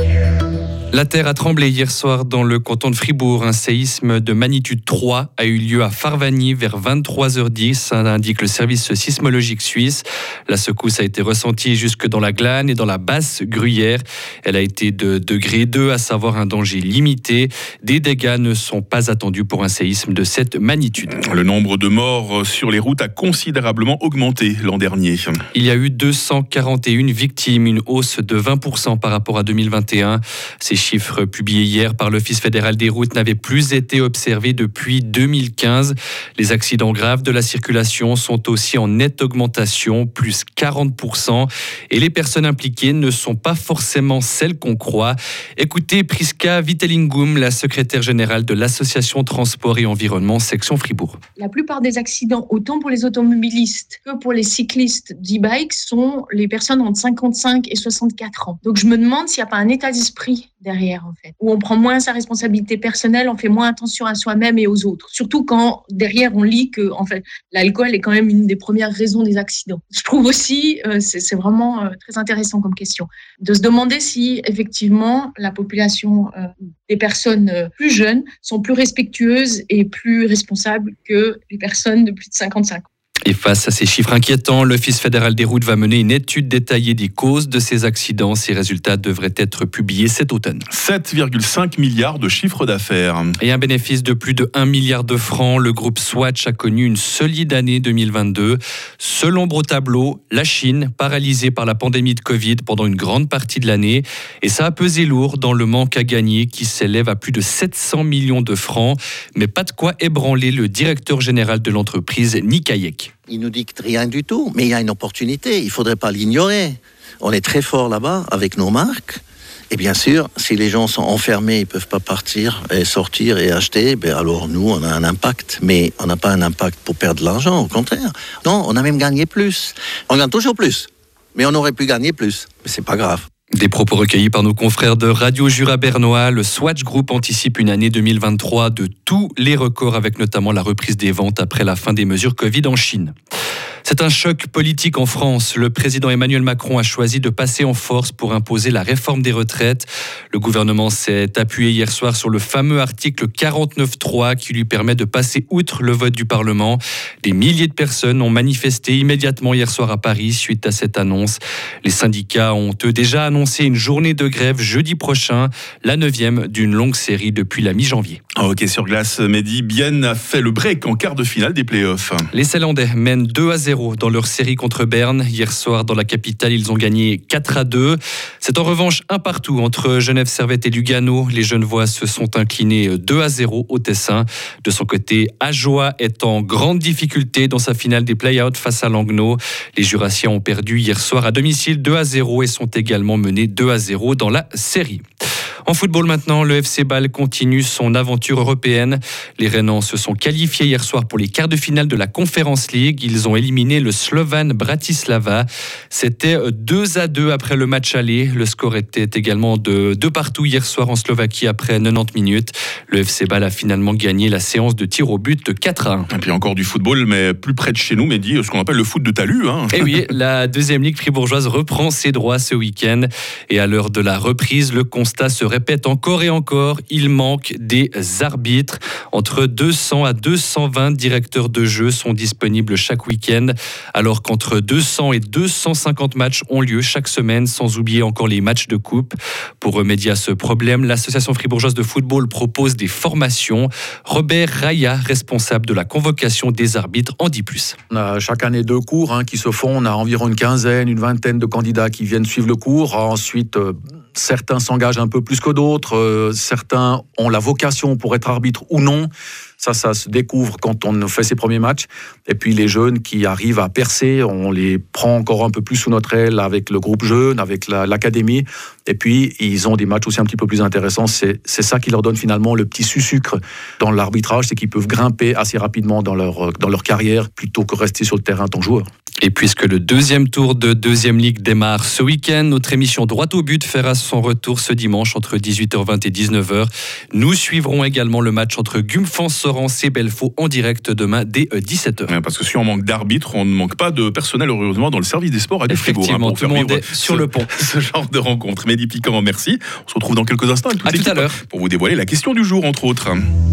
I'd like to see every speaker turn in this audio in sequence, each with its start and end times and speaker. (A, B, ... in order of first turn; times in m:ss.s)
0:00.9-0:21.2 A
0:21.1-0:25.4 B
0:25.5-0:51.2 A
0:51.4-1:22.8 C
1:23.2-1:30.6 A
1:30.7-1:33.3 B
1:33.4-1:53.1 A
1:53.3-2:13.2 D
2:13.5-2:23.1 A
2:23.8-2:48.2 A
2:48.4-2:52.3 B
2:52.3-3:15.0 A
3:15.6-3:36.1 A
3:36.1-3:40.0 B
3:39.7-4:07.8 A
4:07.9-4:38.8 E
4:39.2-4:52.1 A
4:52.1-5:03.2 B
4:55.7-4:57.5 A
5:00.8-5:01.4 A